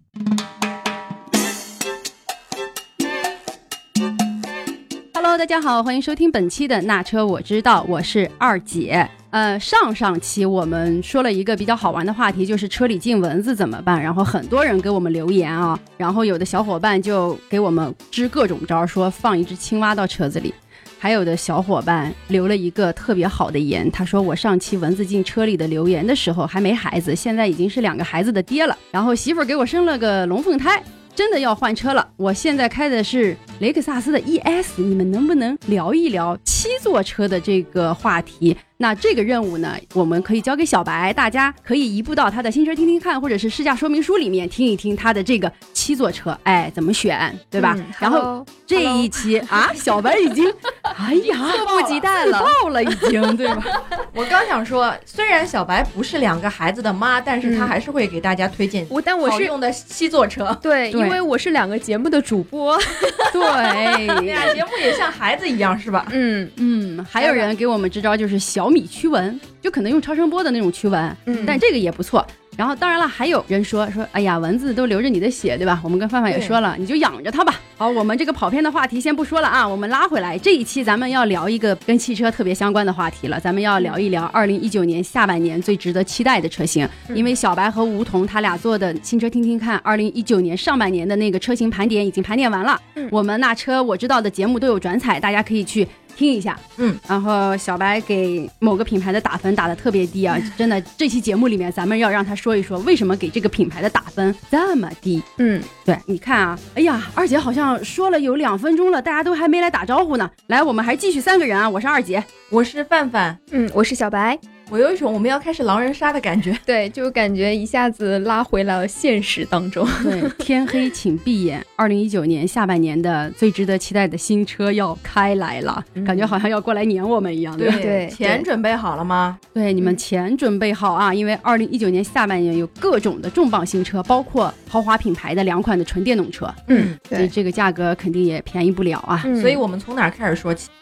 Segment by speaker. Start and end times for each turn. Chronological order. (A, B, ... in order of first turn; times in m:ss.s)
0:05.1-0:53.9 A
0:47.6-0:50.0 B
0:51.2-0:52.6 B
0:54.1-1:00.6 C
0:57.4-0:57.7 B
0:58.9-0:59.5 B
1:00.6-1:04.5 B
1:00.9-1:01.2 A
1:03.3-1:04.6 A
1:04.2-1:06.1 C
1:06.1-1:06.5 B
1:06.6-1:45.2 A
1:07.2-1:07.5 B
1:11.3-1:11.6 B
1:45.4-1:45.7 B
1:45.8-1:52.3 A
1:52.5-1:53.4 C
1:53.5-1:54.4 B
1:54.7-1:56.6 C
1:56.6-2:00.4 B
2:00.0-2:07.8 A
2:06.0-2:06.3 B
2:07.6-2:09.4 C
2:07.7-2:08.4 B
2:09.5-2:19.3 A
2:16.7-2:17.0 C
2:16.7-2:17.3 B
2:19.2-2:19.6 B
2:19.3-2:20.7 C